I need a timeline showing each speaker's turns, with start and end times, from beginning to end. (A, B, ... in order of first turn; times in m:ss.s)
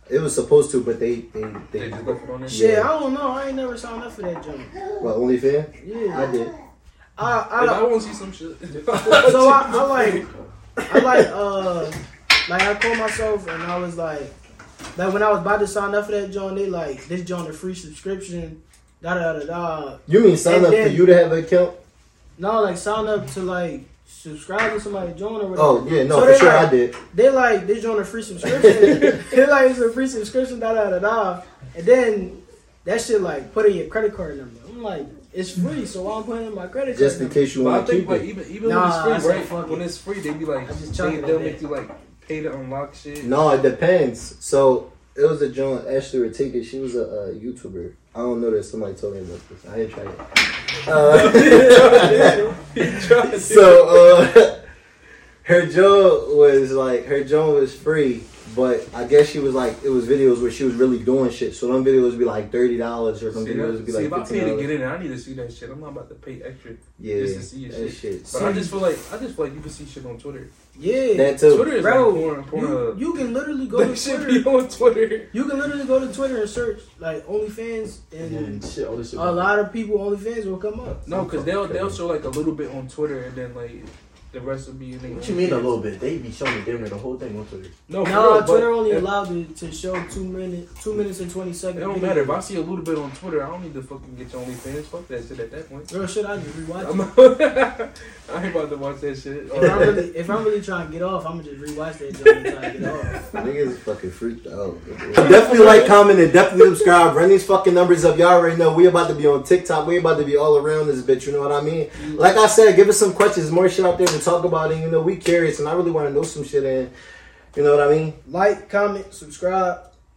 0:00.1-0:02.9 A
0:01.7-0:02.6 B
0:02.5-0:05.0 C
0:05.0-0:06.5 A
0:05.8-0:06.3 C
0:07.2-0:07.8 C
0:07.6-0:10.2 B
0:09.1-0:10.3 C
0:10.9-0:14.4 C
0:14.9-0:21.0 C
0:20.1-0:21.7 A
0:22.4-0:37.4 C
0:25.5-0:26.9 A
0:28.4-0:29.1 A
0:28.7-0:29.2 B
0:36.9-0:38.2 A
0:37.6-0:43.3 B
0:38.6-0:39.8 C
0:40.6-0:41.6 C
0:43.2-0:50.2 A
0:50.8-0:52.4 A
0:50.9-0:54.2 B
0:53.3-0:54.6 A
0:55.4-1:04.7 A
1:03.3-1:10.5 B
1:07.0-1:08.7 A
1:08.3-1:08.7 C
1:10.8-1:14.5 C
1:11.1-1:11.7 A
1:11.5-1:13.1 B
1:13.7-1:15.3 B
1:15.3-1:18.6 C
1:18.2-1:19.5 D
1:19.1-1:21.0 C
1:21.0-1:25.8 B
1:21.1-1:21.9 A
1:25.0-1:27.7 D
1:27.9-1:29.1 B
1:28.0-1:32.4 C
1:31.7-1:35.9 B
1:35.9-1:37.1 C
1:36.8-1:40.0 B
1:39.5-1:43.3 C
1:43.3-1:56.9 A
1:45.2-1:45.9 B
1:57.5-1:58.2 A
1:58.2-1:59.8 C